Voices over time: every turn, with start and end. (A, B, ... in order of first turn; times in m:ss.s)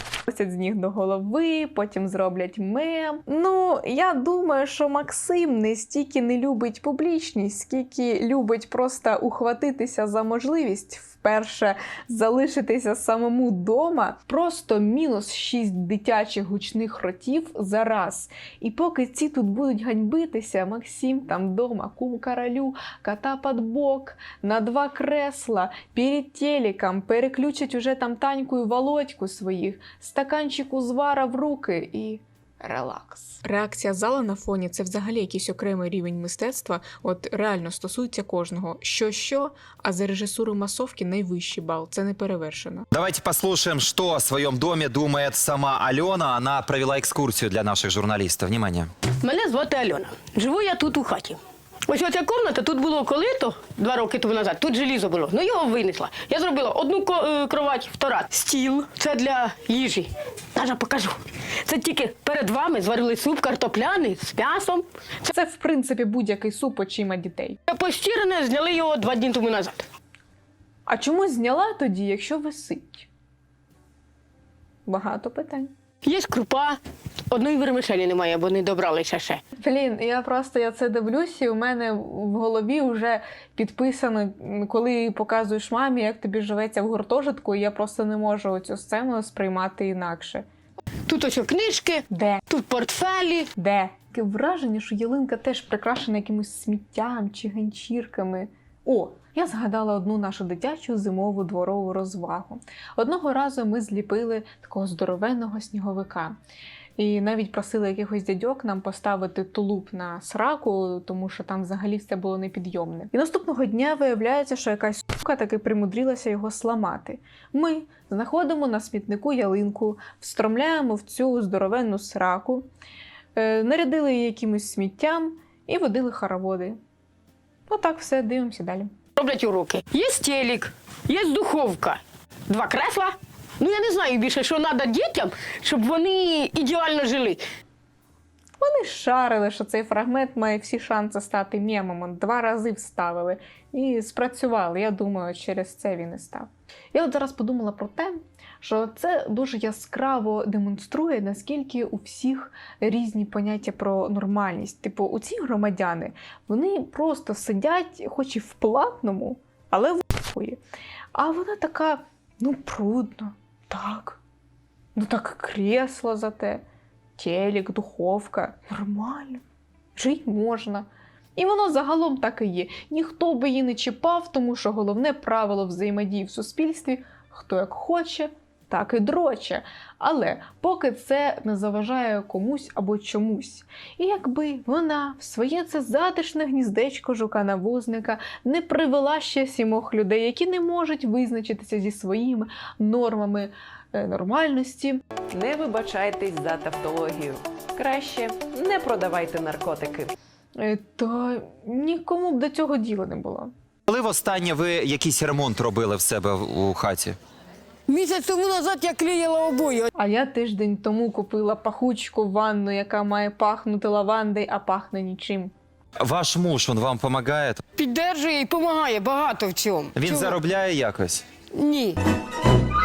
0:00.3-0:42.9 A
0:42.9-0:48.9 B
0:49.2-1:05.3 C
1:05.3-1:07.6 A
1:07.7-1:09.8 C
1:10.9-1:13.1 A
1:14.9-1:15.7 A
1:16.0-1:16.8 C
1:17.3-1:19.4 C
1:19.6-1:30.5 A
1:31.1-1:33.5 C
1:32.1-1:32.4 A
1:33.6-1:46.4 A
1:47.0-2:02.6 A
2:03.4-2:06.8 A
2:07.7-2:08.9 A
2:09.2-2:17.4 C
2:18.6-2:40.6 A
2:41.1-2:44.2 A
2:45.0-2:46.6 A
2:47.2-2:49.4 A
2:50.0-3:15.0 A
3:15.3-3:20.1 D
3:20.6-3:23.5 A
3:23.9-3:27.2 B
3:27.9-3:29.9 C
3:30.0-3:35.5 A
3:36.0-3:37.6 B
3:37.8-3:40.4 C
3:40.0-3:41.2 B
3:41.5-3:42.0 C